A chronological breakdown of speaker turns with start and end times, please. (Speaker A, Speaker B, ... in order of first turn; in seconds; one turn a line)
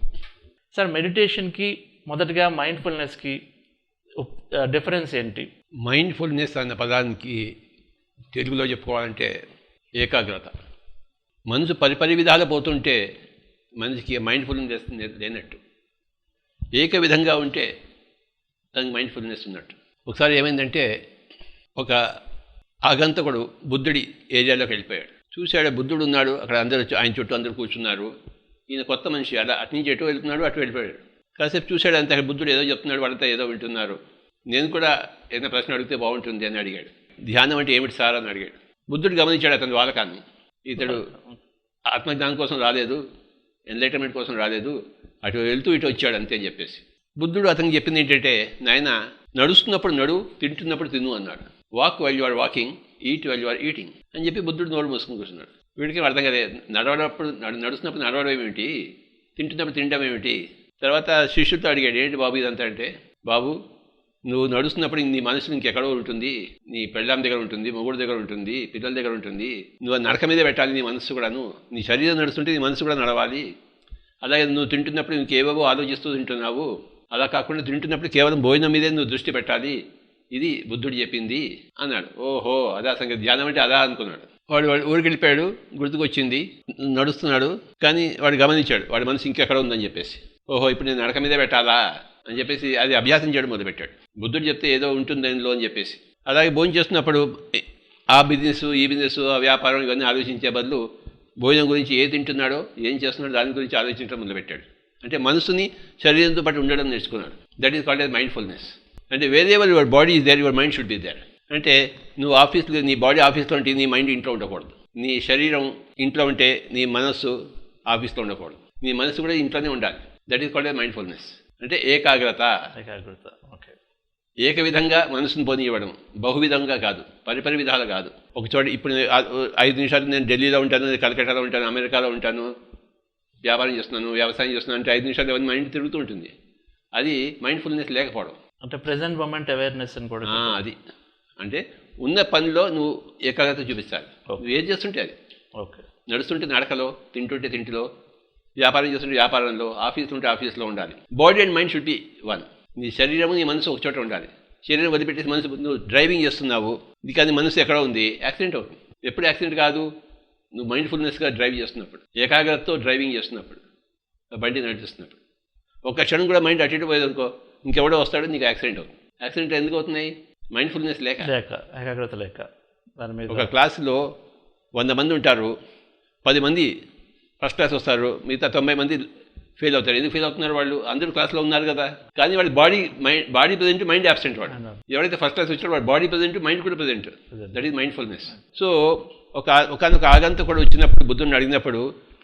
Speaker A: 0.7-3.4
Speaker A: 4.2-5.5
Speaker B: 5.8-7.5
Speaker B: 8.3-9.4
Speaker B: 10.0-10.5
Speaker B: 11.5-13.0
Speaker B: 13.8-15.6
Speaker B: 16.8-17.7
Speaker B: 18.7-20.9
Speaker B: 21.8-22.0
Speaker B: 22.9-28.1
Speaker B: 28.7-34.0
Speaker B: 34.5-41.1
Speaker A: 40.9-41.3
Speaker B: 41.9-43.0
Speaker B: 43.7-58.7
Speaker B: 59.4-63.5
Speaker B: 64.3-73.5
Speaker B: 74.2-79.8
Speaker B: 80.3-100.8
Speaker B: 101.4-117.3
Speaker B: 117.9-122.5
Speaker A: 122.7-123.7
Speaker B: 124.5-132.5
Speaker B: 133.4-136.3
Speaker B: 137.0-138.4
Speaker A: 138.6-140.6
Speaker B: 140.2-140.8
Speaker B: 141.4-145.1
Speaker A: 145.6-145.8
Speaker B: 146.1-147.9
Speaker B: 148.6-159.9
Speaker B: 160.6-163.6
Speaker B: 164.3-165.2
Speaker B: 165.8-171.3
Speaker A: 171.2-172.4
Speaker A: 173.0-173.5
Speaker B: 173.3-174.0
Speaker B: 174.7-175.5
Speaker B: 176.2-176.7
Speaker B: 177.4-179.0
Speaker B: 179.6-191.9
Speaker A: 184.5-184.8
Speaker A: 187.3-187.6